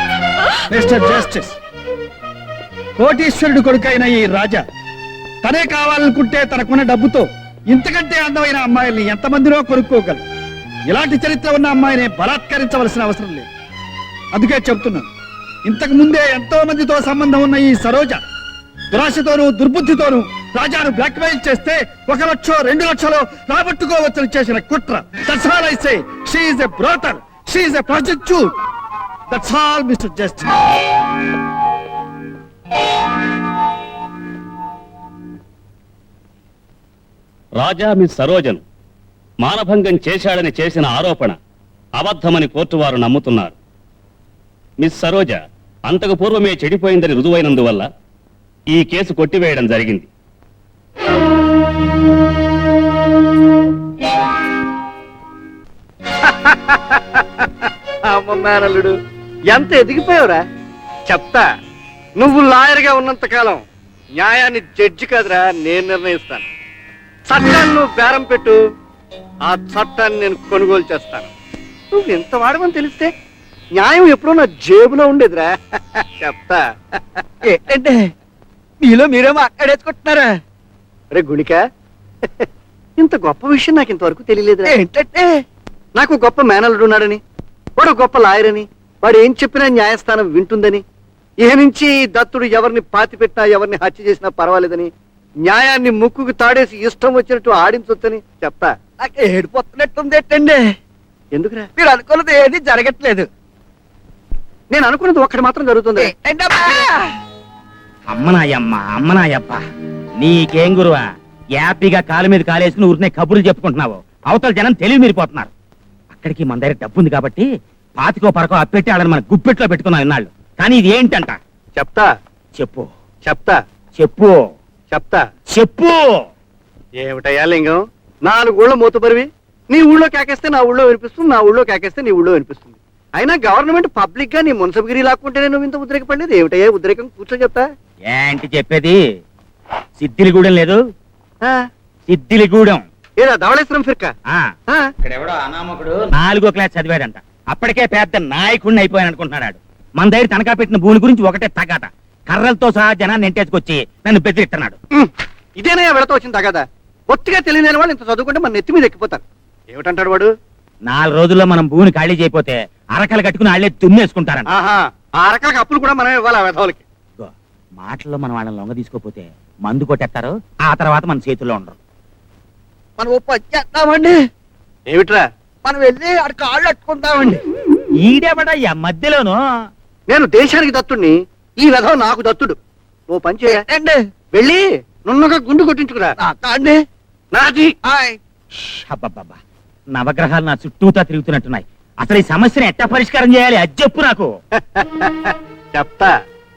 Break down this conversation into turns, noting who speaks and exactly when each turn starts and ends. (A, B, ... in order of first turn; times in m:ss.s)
0:00.7-0:01.6 A
0:03.0-0:04.6 A
0:05.4-0:10.2 A
0:10.9-0:13.5 A
0:14.3-0:15.1 A
0:15.6-0:18.2 A
0:18.9-0:28.5 A
0:29.3-0:30.5 A
0:37.6-0:38.6 B
0:39.4-0:41.4 B
0:42.0-0:43.5 B
0:44.8-0:47.9 B
0:48.7-0:50.1 B
0:56.2-0:58.9 C
0:59.5-1:00.4 C
1:01.1-1:01.4 C
1:02.2-1:03.6 C
1:04.2-1:06.5 C
1:07.3-1:08.6 C
1:09.4-1:11.3 C
1:11.9-1:13.1 C
1:13.7-1:17.2 C
1:17.5-1:18.1 D
1:18.8-1:20.3 D
1:21.1-1:21.6 C
1:23.0-1:24.7 C
1:24.6-1:25.3 D
1:26.0-1:27.2 C
1:27.8-1:30.8 C
1:31.4-1:34.9 C
1:35.4-1:38.7 C
1:39.0-1:40.7 D
1:41.3-1:41.7 C
1:41.8-1:43.3 D
1:44.7-1:46.1 C
1:46.0-1:47.1 D
1:48.1-1:49.6 E
1:50.2-1:51.0 E
1:51.6-1:55.5 E
1:56.1-1:57.5 E
1:58.0-2:01.4 E
2:01.8-2:02.1 C
2:02.6-2:02.9 E
2:03.2-2:03.6 C
2:04.0-2:04.4 E
2:04.9-2:05.2 C
2:05.5-2:06.2 E
2:07.0-2:17.6 C
2:18.1-2:19.0 E
2:20.0-2:20.8 E
2:22.1-2:22.8 E
2:23.2-2:24.1 C
2:25.0-2:34.7 E
2:35.0-2:40.3 C
2:40.8-2:44.5 E
2:44.4-2:46.8 C
2:47.2-2:51.8 E
2:53.0-2:54.2 D
2:54.9-2:55.2 C
2:55.6-2:57.4 D
2:58.0-2:59.4 E
3:00.1-3:02.6 C
3:03.1-3:03.6 C
3:03.4-3:04.0 D
3:04.3-3:06.2 C
3:06.2-3:06.8 D
3:07.3-3:07.7 C
3:07.9-3:08.2 D
3:08.9-3:09.4 E
3:09.9-3:14.3 E
3:14.6-3:16.1 C